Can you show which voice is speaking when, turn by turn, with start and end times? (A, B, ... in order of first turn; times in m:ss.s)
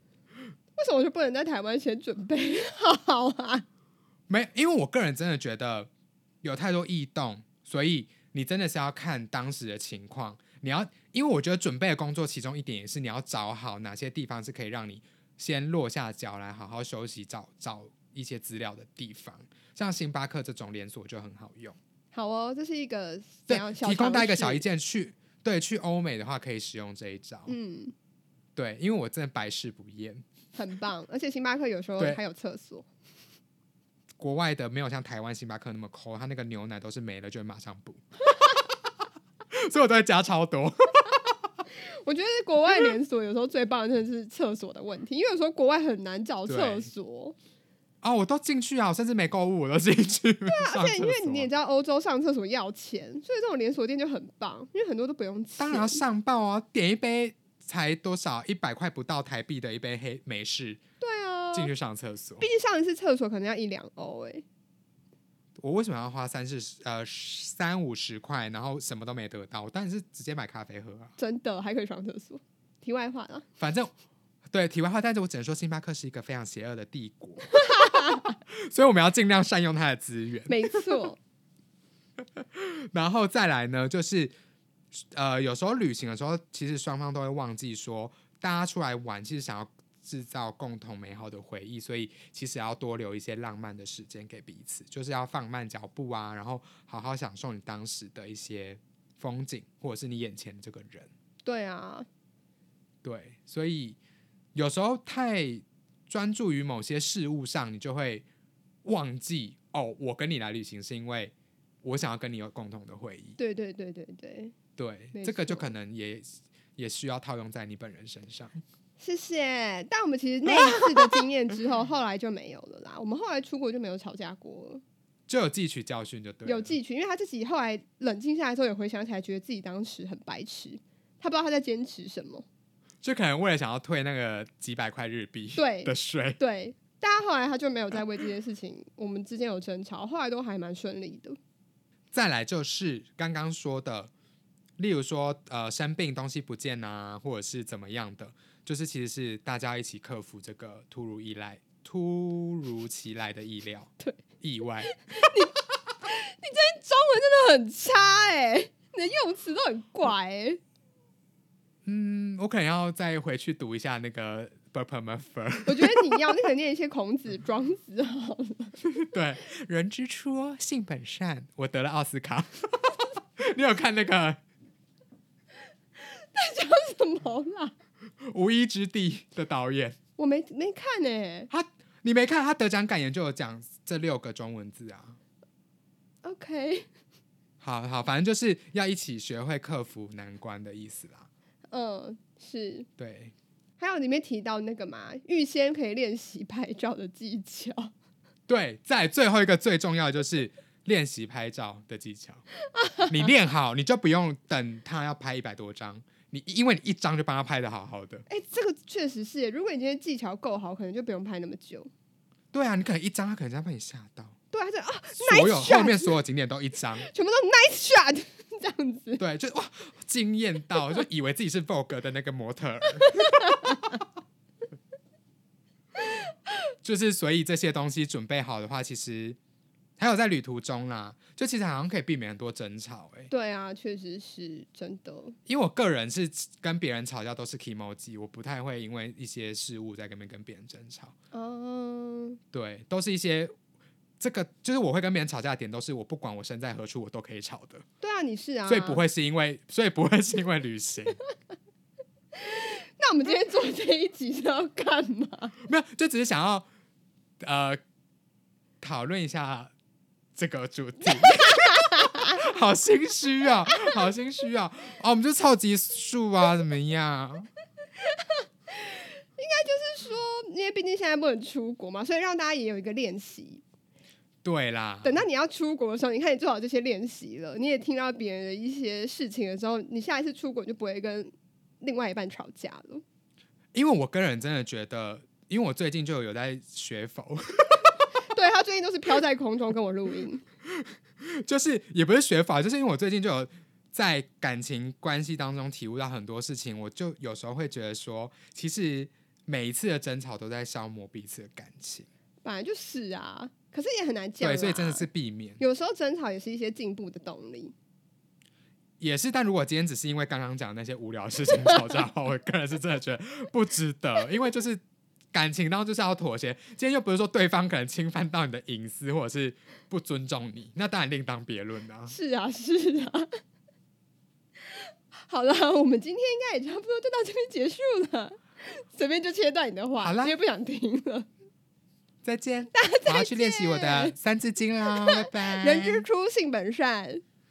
0:00.8-0:03.7 A
0:04.3-0:05.9 B
0:06.4-0:21.8 B
0:22.1-0:24.6 A
0:23.5-0:27.6 B
0:27.5-0:27.9 A
0:28.6-0:30.3 B
0:30.6-0:32.9 A
0:34.2-0:38.1 B
0:39.5-0:41.3 B
0:42.0-0:47.4 A
0:46.5-0:46.9 B
0:48.0-0:51.5 B
0:50.5-0:56.0 A
0:55.6-1:00.8 B
1:01.0-1:01.7 A
1:01.5-1:02.4 B
1:02.4-1:04.4 A
1:05.6-1:11.1 B
1:11.2-1:13.4 A
1:13.6-1:13.9 B
1:14.5-1:20.9 B
1:17.5-1:18.3 A
1:20.5-1:21.2 A
1:22.2-1:24.3 B
1:24.9-1:41.1 B
1:41.4-1:42.1 A
1:43.0-1:44.0 B
1:44.6-1:48.3 B
1:48.8-1:53.4 B
1:53.4-1:54.6 A
1:54.8-1:58.6 B
1:55.1-1:55.7 A
1:59.0-2:04.8 A
2:00.4-2:01.3 B
2:05.3-2:06.8 B
2:06.4-2:12.4 A
2:13.0-2:16.4 B
2:15.6-2:21.4 A
2:22.1-2:24.1 B
2:24.8-2:35.0 B
2:34.8-2:40.6 A
2:41.8-2:46.4 B
2:45.7-2:48.8 A
2:48.8-2:54.4 B
2:56.0-2:57.7 A
2:58.2-3:00.0 B
3:00.2-3:01.5 A
3:01.5-3:05.2 B
3:06.2-3:06.9 A
3:07.6-3:11.3 B
3:11.7-3:12.9 A
3:13.0-3:13.3 B
3:13.8-3:17.9 A
3:18.5-3:22.4 B
3:22.7-3:23.1 A
3:23.1-3:28.2 B
3:28.3-3:31.9 A
3:32.5-3:34.4 B
3:34.5-3:36.2 A
3:35.1-3:37.1 B
3:37.0-3:39.2 A
3:39.2-3:44.0 B
3:43.4-3:43.8 A
3:46.8-3:49.4 B
3:50.0-3:53.3 B
3:53.3-3:55.4 A
3:55.5-4:01.1 B
4:01.3-4:02.4 A
4:02.5-4:03.5 B
4:04.2-4:07.8 B
4:08.0-4:09.0 A
4:08.6-4:11.2 B
4:12.4-4:15.6 A
4:15.6-4:16.7 B
4:17.4-4:17.8 B
4:18.8-4:19.7 B
4:20.4-4:27.5 B
4:21.1-4:22.4 A
4:28.1-4:33.6 A
4:34.4-4:35.2 B
4:35.0-4:43.0 A
4:43.7-4:48.0 B
4:48.3-4:50.4 A
4:50.8-5:02.1 B
5:02.4-5:05.1 A
5:04.4-5:05.6 B
5:05.6-5:07.7 A
5:09.0-5:14.8 B
5:15.3-5:22.1 B
5:22.1-5:23.3 A
5:24.7-5:31.3 A
5:30.0-5:30.4 B
5:32.2-5:36.1 B
5:32.7-5:34.2 A
5:34.9-5:37.2 A